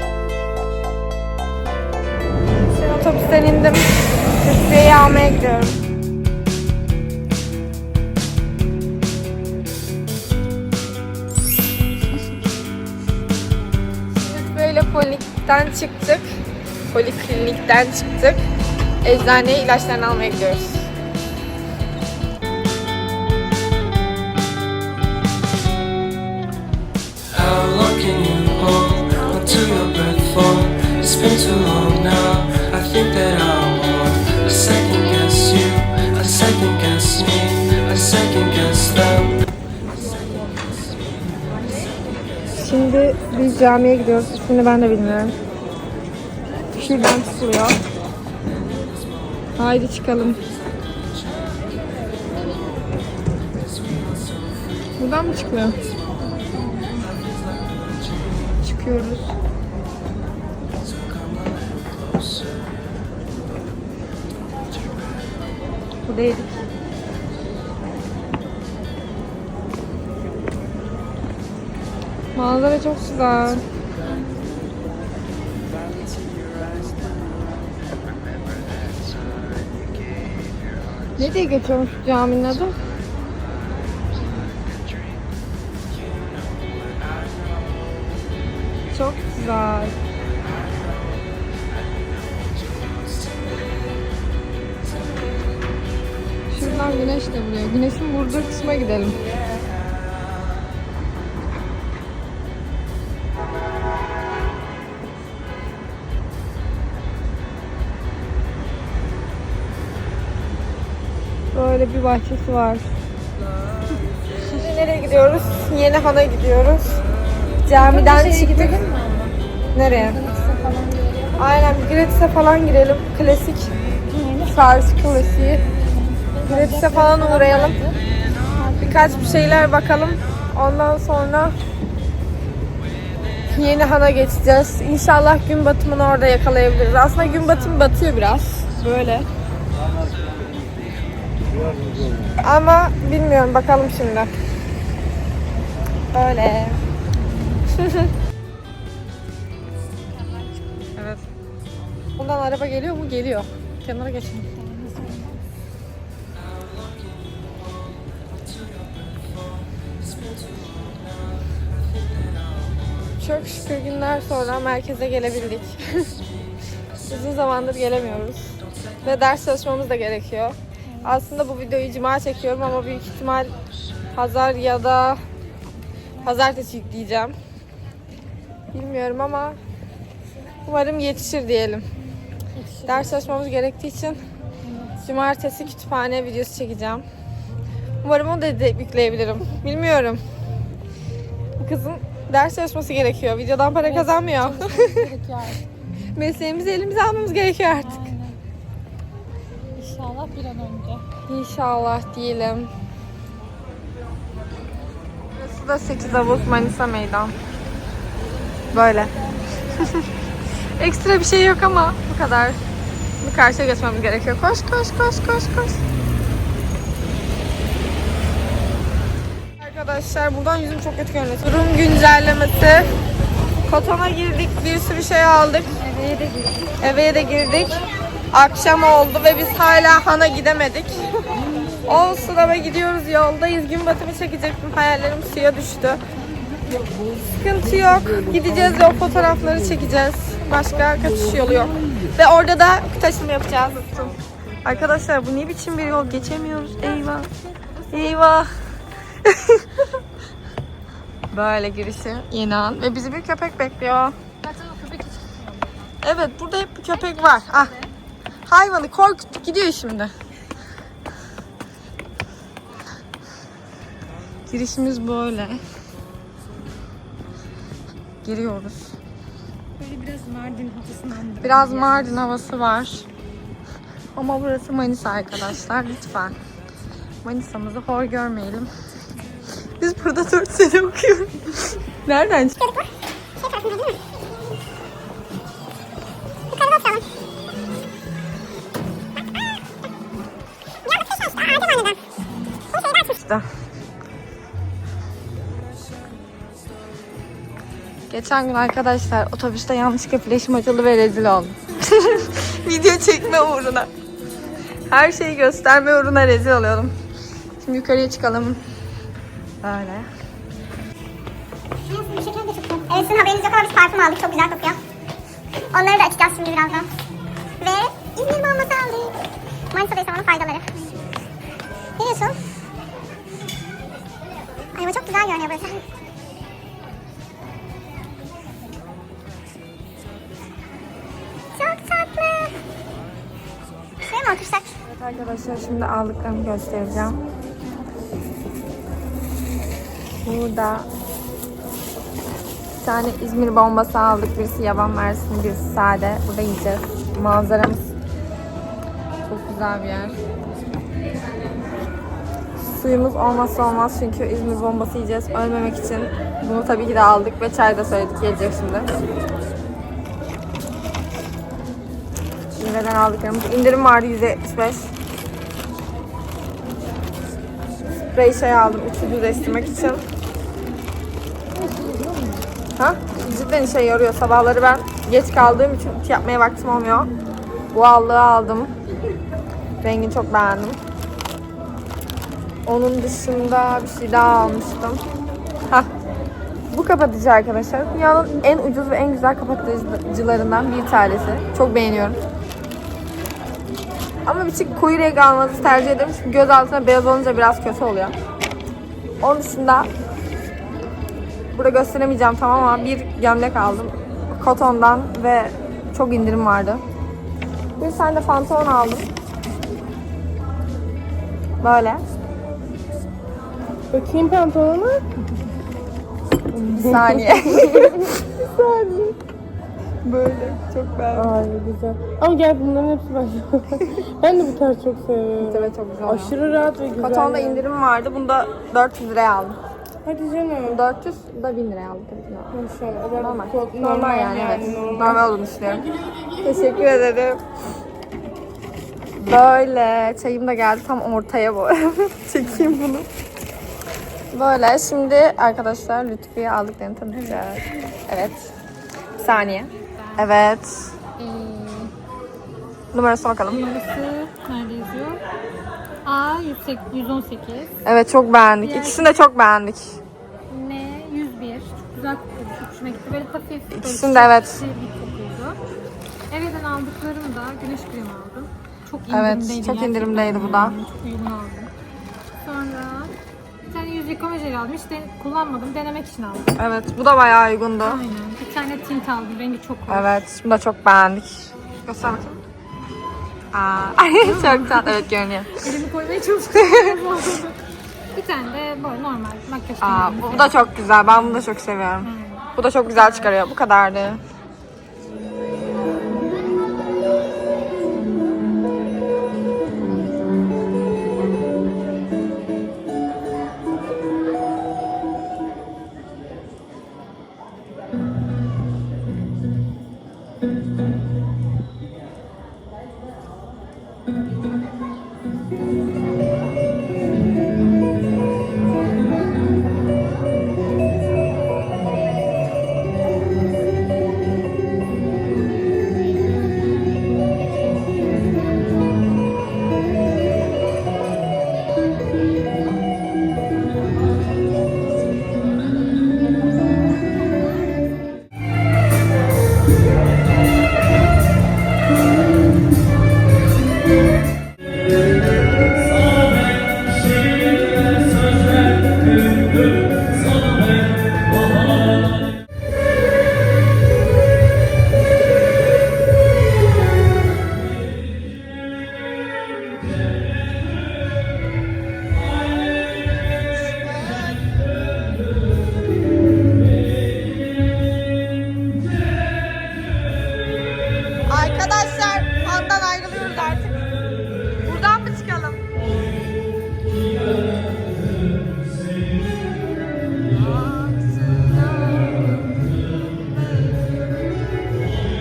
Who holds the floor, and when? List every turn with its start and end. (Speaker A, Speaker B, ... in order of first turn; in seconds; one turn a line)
Speaker A: 2.7-5.8
Speaker A: 14.1-16.3
Speaker A: 16.9-18.4
Speaker A: 19.0-20.9
Speaker B: 27.3-39.4
Speaker A: 42.5-45.3
Speaker A: 46.7-47.8
Speaker A: 49.6-50.4
Speaker A: 55.0-55.8
Speaker C: 56.4-57.0
Speaker A: 58.6-59.4
Speaker A: 66.0-66.6
Speaker A: 72.3-73.6
Speaker B: 78.3-80.3
Speaker A: 81.2-82.8
Speaker A: 88.9-90.0
Speaker A: 96.5-99.3
Speaker A: 111.5-112.8
Speaker A: 114.5-117.0
Speaker A: 117.7-118.8
Speaker C: 117.8-121.6
Speaker A: 119.8-120.2
Speaker A: 121.4-123.7
Speaker C: 124.1-124.6
Speaker A: 124.5-125.7
Speaker C: 125.8-128.0
Speaker A: 126.5-127.8
Speaker C: 128.6-129.7
Speaker A: 128.8-131.5
Speaker A: 133.5-139.3
Speaker C: 137.2-138.0
Speaker A: 142.4-144.3
Speaker A: 146.1-146.8
Speaker C: 147.3-147.6
Speaker A: 147.7-148.1
Speaker C: 150.2-150.5
Speaker A: 152.2-154.5
Speaker C: 154.5-155.4
Speaker A: 163.2-166.2
Speaker A: 167.1-173.5
Speaker C: 170.9-171.2
Speaker A: 174.1-175.2
Speaker A: 176.2-177.3
Speaker A: 178.7-179.6
Speaker A: 180.7-181.8
Speaker C: 182.5-183.4
Speaker A: 182.9-184.2
Speaker C: 184.6-185.1
Speaker A: 185.1-187.1
Speaker A: 188.0-190.2
Speaker A: 191.6-195.1
Speaker C: 193.7-195.6
Speaker A: 196.2-198.0
Speaker C: 197.8-198.4
Speaker C: 199.8-201.0
Speaker A: 201.2-202.7
Speaker A: 205.3-207.3
Speaker A: 208.7-210.1
Speaker A: 210.8-212.6
Speaker A: 213.2-215.8
Speaker A: 219.6-222.9
Speaker A: 223.7-225.8
Speaker C: 225.8-226.7
Speaker A: 226.8-231.1
Speaker A: 231.8-236.0
Speaker A: 237.3-247.3
Speaker C: 247.4-248.2
Speaker A: 247.9-248.5
Speaker A: 249.2-249.7
Speaker A: 251.3-254.2
Speaker C: 254.4-255.9
Speaker A: 256.0-257.7
Speaker C: 257.0-257.9
Speaker A: 258.4-260.1
Speaker A: 264.5-265.6
Speaker A: 268.2-269.0
Speaker C: 269.8-272.2
Speaker A: 271.4-273.1
Speaker A: 274.1-276.4
Speaker A: 277.2-278.7
Speaker A: 279.8-282.6
Speaker D: 282.6-284.0
Speaker D: 286.5-287.0
Speaker D: 290.9-292.0
Speaker D: 292.7-293.1
Speaker A: 293.1-293.4
Speaker A: 298.1-303.9
Speaker A: 304.9-306.9
Speaker A: 307.6-308.6
Speaker A: 309.6-310.1
Speaker D: 311.9-314.8
Speaker D: 315.7-316.9
Speaker D: 317.6-319.1
Speaker D: 319.7-320.6
Speaker D: 322.0-322.4
Speaker D: 324.7-325.8
Speaker D: 331.6-332.6
Speaker D: 334.0-334.7
Speaker A: 334.8-337.2
Speaker A: 340.2-340.9
Speaker A: 342.8-347.9
Speaker A: 349.2-350.1
Speaker A: 352.7-358.9
Speaker A: 362.5-364.9
Speaker A: 368.1-370.0
Speaker C: 371.5-372.5
Speaker A: 372.8-377.1
Speaker A: 377.7-378.7
Speaker A: 379.8-380.8
Speaker A: 382.6-385.0
Speaker A: 386.7-392.2
Speaker A: 394.2-398.1
Speaker A: 399.2-399.9
Speaker A: 401.5-406.8
Speaker A: 407.8-409.1
Speaker A: 411.6-412.0
Speaker E: 413.9-415.0
Speaker E: 416.5-419.1
Speaker A: 416.7-418.1
Speaker A: 420.0-421.4
Speaker E: 421.1-427.6
Speaker A: 425.4-426.4
Speaker A: 427.0-429.6
Speaker E: 430.0-430.8
Speaker A: 430.6-432.6
Speaker E: 432.5-435.2
Speaker A: 433.1-435.9
Speaker E: 436.0-436.8
Speaker A: 436.4-437.4
Speaker A: 439.2-443.1
Speaker A: 444.3-448.5
Speaker A: 449.2-450.9
Speaker C: 449.5-450.3
Speaker C: 451.2-451.9
Speaker A: 452.9-453.7
Speaker C: 453.4-455.2
Speaker C: 456.0-457.7
Speaker A: 457.8-460.0
Speaker C: 458.6-459.2
Speaker C: 460.5-465.6
Speaker A: 463.7-464.6
Speaker C: 466.3-471.7
Speaker A: 469.1-470.8
Speaker C: 472.4-473.1
Speaker C: 473.7-476.5
Speaker A: 476.6-478.0
Speaker C: 477.8-480.1
Speaker A: 479.9-482.4
Speaker A: 483.5-485.7
Speaker C: 484.2-485.0
Speaker C: 485.5-487.6
Speaker A: 486.5-487.1
Speaker C: 488.1-490.7
Speaker A: 489.8-494.2
Speaker C: 492.0-493.4
Speaker A: 571.3-573.9
Speaker A: 574.6-575.6
Speaker A: 580.3-583.8